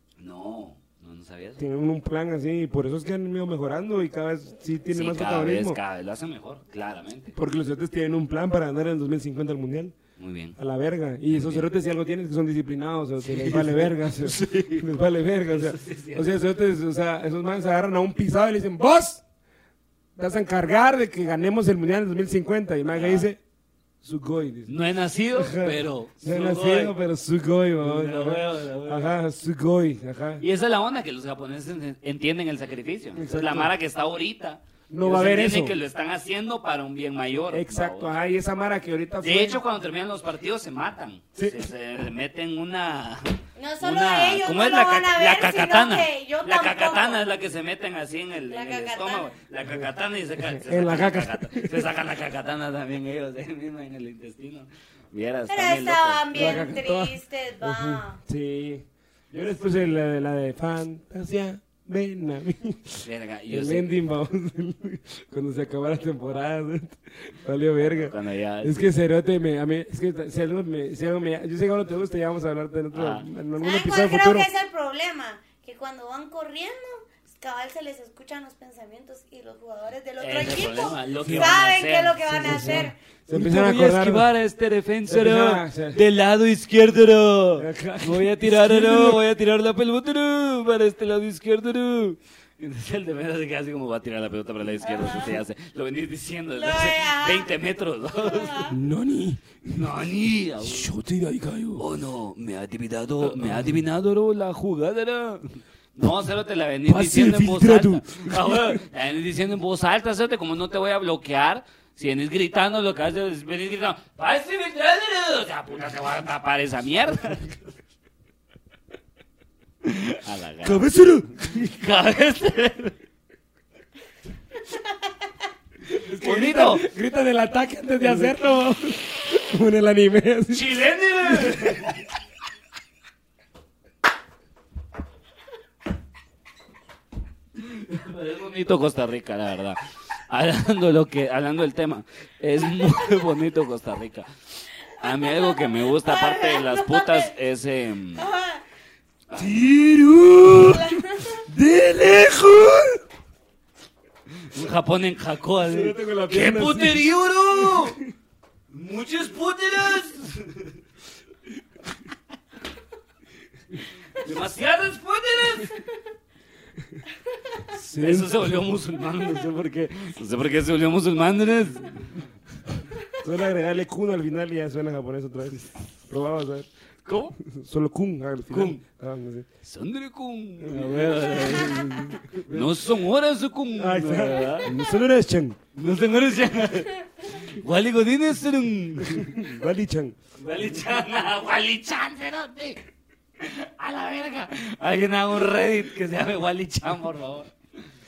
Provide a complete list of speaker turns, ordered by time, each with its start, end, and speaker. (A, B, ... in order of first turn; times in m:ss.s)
0:00.2-0:01.6 A
0:01.6-0:05.8 B
0:04.9-0:07.3 A
0:07.3-0:09.9 B
0:10.2-0:10.6 A
0:10.6-0:19.2 B
0:11.3-0:11.7 A
0:13.2-0:14.8 A
0:15.5-0:16.3 A
0:20.2-0:23.4 B
0:22.9-0:23.3 A
0:24.0-0:24.7 B
0:24.7-0:26.9 A
0:25.3-0:30.4 B
0:27.8-0:29.1 A
0:30.4-0:38.1 A
0:33.1-0:33.7 B
0:34.9-0:35.8 B
0:37.5-0:39.6 B
0:39.2-0:56.6 A
0:41.4-0:41.6 B
0:43.6-0:47.2 C
0:48.5-0:49.3 C
0:50.5-0:51.9 B
0:55.5-0:58.2 C
0:56.3-1:14.5 B
1:03.0-1:03.9 A
1:07.8-1:08.8 A
1:12.9-1:13.3 A
1:13.6-1:23.0 C
1:20.2-1:38.7 A
1:21.2-1:21.6 B
1:22.3-1:24.3 B
1:25.1-1:26.0 B
1:27.6-1:29.2 B
1:34.8-1:35.4 C
1:36.6-1:37.5 C
1:38.2-1:38.8 C
1:38.7-1:39.9 B
1:39.7-1:40.9 A
1:40.6-1:41.8 B
1:41.8-1:57.6 A
1:43.2-1:43.8 B
1:46.8-1:48.8 B
1:59.8-2:02.9 A
2:00.6-2:01.7 B
2:05.9-2:10.7 B
2:06.1-2:06.8 A
2:10.5-2:12.0 A
2:11.2-2:12.0 B
2:17.6-2:24.3 A
2:25.0-2:28.3 A
2:25.0-2:27.3 C
2:28.2-2:28.6 C
2:29.3-2:33.0 B
2:30.6-2:31.4 C
2:34.4-2:38.0 A
2:35.6-2:38.1 B
2:38.7-2:40.8 A
2:44.2-2:45.8 A
2:47.7-2:52.1 A
2:47.7-2:48.6 B
2:53.2-2:56.7 B
2:57.0-2:57.4 A
2:57.4-2:59.5 B
2:58.5-2:58.8 A
2:59.6-3:04.8 A
3:00.6-3:02.9 B
3:03.8-3:05.6 B
3:05.8-3:09.6 A
3:09.0-3:10.2 B
3:10.4-3:12.8 A
3:13.4-3:17.5 A